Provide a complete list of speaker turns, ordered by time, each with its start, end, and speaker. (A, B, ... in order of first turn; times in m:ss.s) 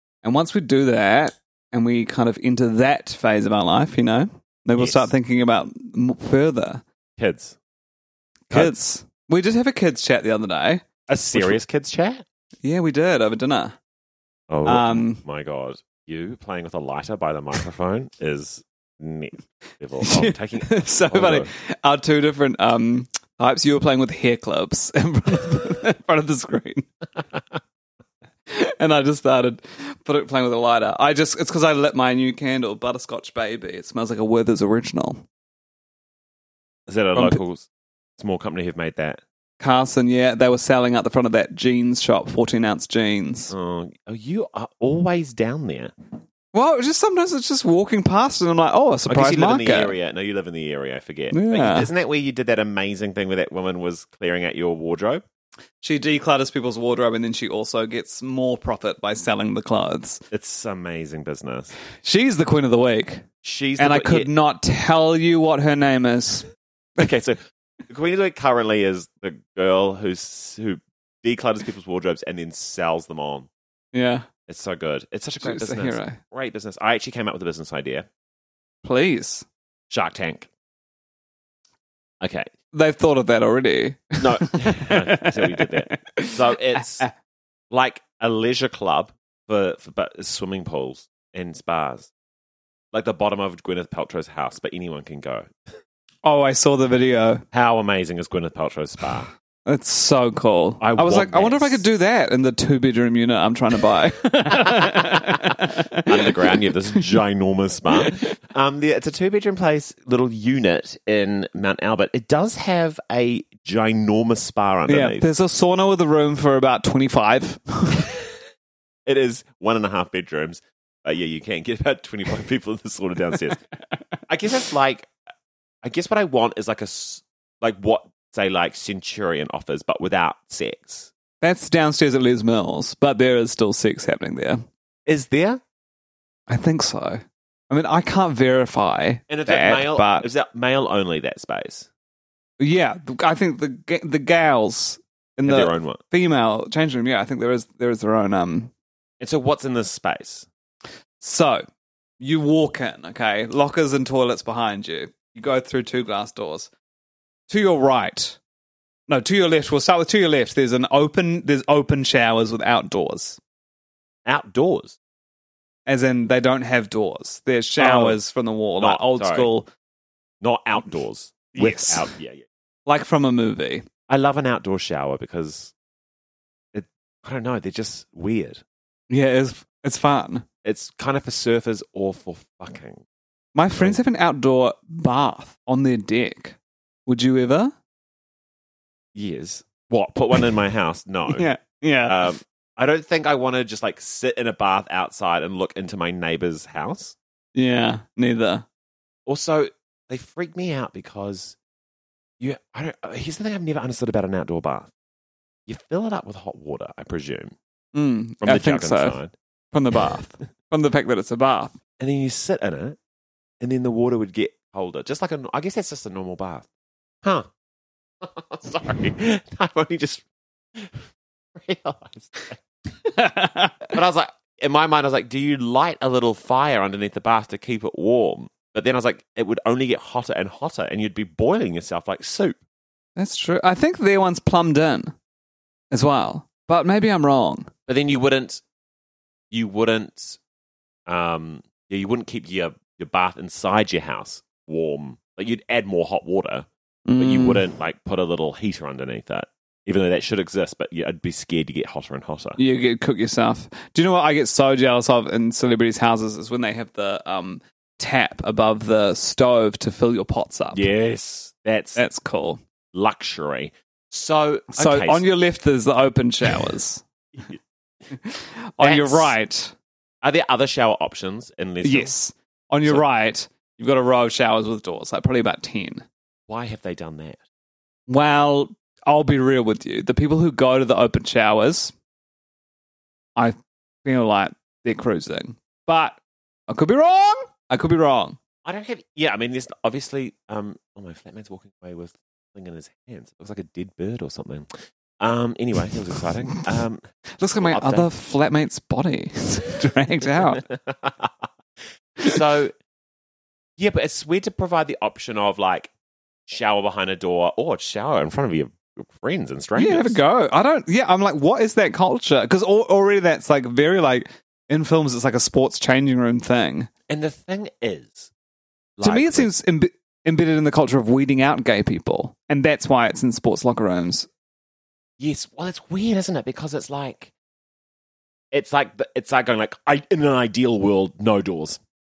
0:00.2-0:06.8 A
0:04.8-0:05.1 B
0:07.2-0:07.6 B
0:08.5-0:10.8 A
0:08.5-0:08.7 B
0:11.1-0:12.2 B
0:12.6-0:13.8 A
0:14.5-0:21.5 B
0:14.6-0:15.2 A
0:20.0-0:26.8 A
0:28.5-0:35.2 A
0:36.9-0:37.7 B
0:37.1-0:37.4 A
0:38.2-0:39.2 B
0:39.6-0:43.5 A
0:43.5-0:45.9 B
0:46.5-0:49.9 A
0:49.1-0:55.2 B
0:51.3-0:51.9 A
0:55.8-1:00.2 A
1:00.3-1:01.7 B
1:02.0-1:03.2 A
1:03.4-1:04.3 B
1:03.8-1:06.4 A
1:07.0-1:13.5 B
1:13.9-1:14.3 A
1:14.5-1:18.1 B
1:15.4-1:16.2 A
1:18.8-1:19.4 A
1:19.9-1:20.5 B
1:22.2-1:22.5 B
1:22.7-1:27.1 A
1:24.2-1:27.1 B
1:27.7-1:32.1 B
1:32.9-1:35.5 B
1:36.2-1:37.4 A
1:37.5-1:39.3 B
1:39.6-1:46.3 A
1:40.8-1:41.8 B
1:45.0-1:45.5 B
1:46.1-1:55.3 B
1:54.9-1:58.1 A
1:59.0-2:03.6 B
2:04.3-2:05.1 B
2:05.8-2:11.1 B
2:11.4-2:14.6 A
2:15.0-2:15.6 B
2:16.5-2:20.3 A
2:19.3-2:21.9 B
2:22.6-2:28.7 A
2:25.4-2:26.0 B
2:29.2-2:30.5 B
2:31.2-2:31.6 A
2:32.2-2:36.7 A
2:37.5-2:38.4 A
2:39.1-2:43.4 A
2:44.2-2:45.0 B
2:45.9-2:49.7 A
2:47.8-2:48.2 B
2:48.8-2:49.5 B
2:50.4-2:52.4 B
2:51.5-2:52.1 A
2:52.9-2:53.8 A
2:54.1-2:55.7 B
2:56.7-2:58.6 B
2:59.1-3:00.4 A
3:00.6-3:03.0 B
3:03.5-3:06.6 A
3:07.1-3:07.7 A
3:09.1-3:11.5 B
3:11.3-3:12.2 A
3:12.0-3:17.2 B
3:17.5-3:18.6 A
3:19.3-3:21.6 B
3:22.4-3:24.9 B
3:25.7-3:27.5 B
3:27.9-3:29.2 A
3:28.4-3:29.3 B
3:29.7-3:31.8 A
3:32.0-3:33.0 B
3:33.6-3:36.7 B
3:37.2-3:37.5 B
3:38.2-3:42.6 B
3:43.1-3:43.9 A
3:43.9-3:52.6 B
3:53.2-3:55.1 A
3:55.9-3:57.7 A
3:57.9-3:58.6 B
3:59.5-4:00.4 B
4:01.1-4:06.7 B
4:07.1-4:07.6 A
4:07.2-4:12.6 B
4:12.6-4:20.9 A
4:20.7-4:22.0 B
4:22.0-4:22.6 A
4:22.9-4:25.2 B
4:24.7-4:27.0 A
4:28.2-4:29.7 A
4:28.8-4:29.4 B
4:30.2-4:32.1 B
4:31.8-4:36.0 A
4:36.5-4:37.4 B
4:38.1-4:41.9 A
4:43.4-4:46.2 A
4:46.7-4:48.4 A
4:48.6-4:54.7 B
4:55.2-4:57.0 B
4:57.4-5:00.6 A
4:57.6-4:58.1 B
5:00.4-5:01.5 B
5:02.2-5:02.7 B
5:03.8-5:05.9 B
5:06.5-5:10.2 B
5:09.8-5:16.9 A
5:17.1-5:18.3 B
5:19.0-5:19.5 B
5:19.0-5:24.3 A
5:25.2-5:27.3 B
5:28.5-5:31.8 B